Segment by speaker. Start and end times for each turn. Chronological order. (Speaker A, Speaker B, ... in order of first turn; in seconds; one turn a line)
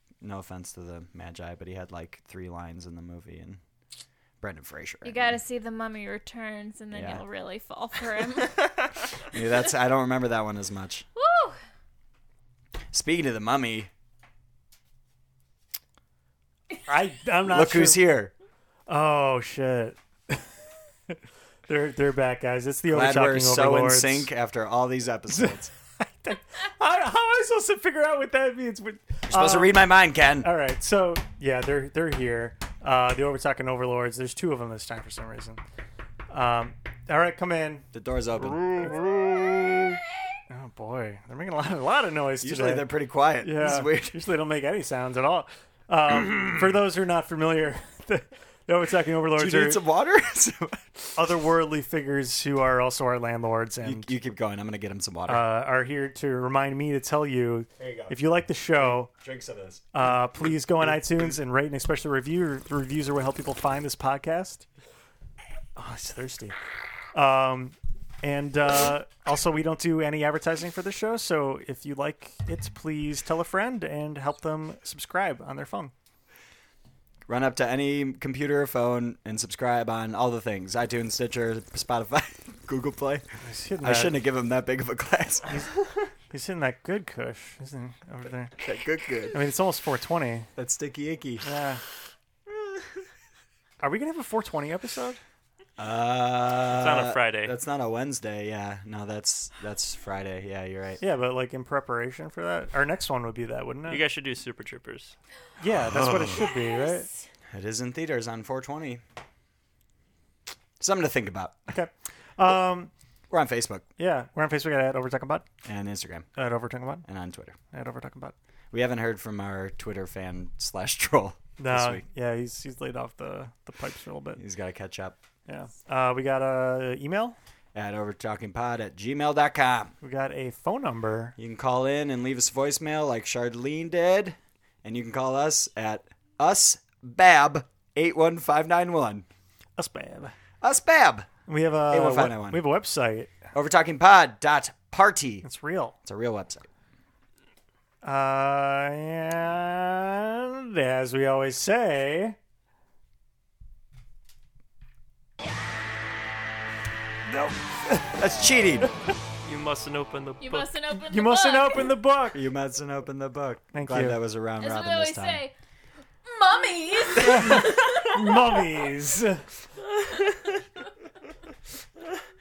Speaker A: 0.2-3.6
Speaker A: 4.4-5.4
Speaker B: 5.0-8.9
Speaker A: 6.9-7.2
Speaker A: 9.2-11.1
Speaker B: 11.2-11.6
Speaker A: 12.9-13.9
Speaker C: 16.9-18.0
Speaker A: 17.4-18.3
Speaker C: 18.9-20.5
Speaker C: 21.7-24.3
Speaker A: 22.9-25.7
Speaker C: 25.3-29.9
Speaker A: 29.3-30.5
Speaker C: 30.4-35.6
Speaker C: 36.3-37.9
Speaker A: 37.9-39.9
Speaker C: 38.8-39.2
Speaker C: 40.5-42.9
Speaker A: 42.4-44.2
Speaker C: 43.4-49.8
Speaker A: 49.4-51.2
Speaker C: 51.1-54.1
Speaker A: 53.8-55.5
Speaker C: 55.3-59.1
Speaker A: 57.8-58.1
Speaker A: 58.8-59.8
Speaker C: 59.9-64.7
Speaker C: 65.8-66.5
Speaker C: 67.1-75.9
Speaker A: 77.3-83.2
Speaker C: 83.4-84.2
Speaker A: 83.8-85.6
Speaker C: 86.3-88.6
Speaker A: 88.6-89.3
Speaker C: 89.3-90.5
Speaker A: 90.5-91.4
Speaker C: 91.4-91.8
Speaker C: 93.8-95.2
Speaker A: 95.8-101.0
Speaker D: 96.7-97.5
Speaker C: 101.0-104.0
Speaker D: 103.9-105.2
Speaker C: 105.6-107.1
Speaker A: 105.9-106.4
Speaker B: 106.6-107.0
Speaker A: 107.5-109.0
Speaker A: 110.8-111.6
Speaker C: 111.7-112.9
Speaker A: 113.3-113.8
Speaker C: 114.0-115.5
Speaker A: 115.6-116.3
Speaker C: 116.3-117.0
Speaker A: 117.0-117.5
Speaker C: 117.7-118.3
Speaker A: 118.7-122.0
Speaker C: 121.6-124.4
Speaker A: 124.4-125.2
Speaker C: 125.5-127.3
Speaker A: 127.7-129.9
Speaker C: 130.0-131.3
Speaker A: 131.4-139.2
Speaker C: 139.8-140.3
Speaker A: 140.6-141.3
Speaker C: 141.5-143.3
Speaker A: 141.9-142.6
Speaker A: 143.5-145.4
Speaker C: 145.4-145.9
Speaker A: 146.0-146.7
Speaker C: 148.0-152.3
Speaker C: 157.3-158.3
Speaker A: 158.1-158.9
Speaker D: 159.4-160.7
Speaker B: 160.4-162.0
Speaker C: 160.9-162.4
Speaker A: 162.3-165.4
Speaker C: 163.7-164.2
Speaker B: 164.6-165.5
Speaker B: 166.2-168.4
Speaker C: 167.2-169.4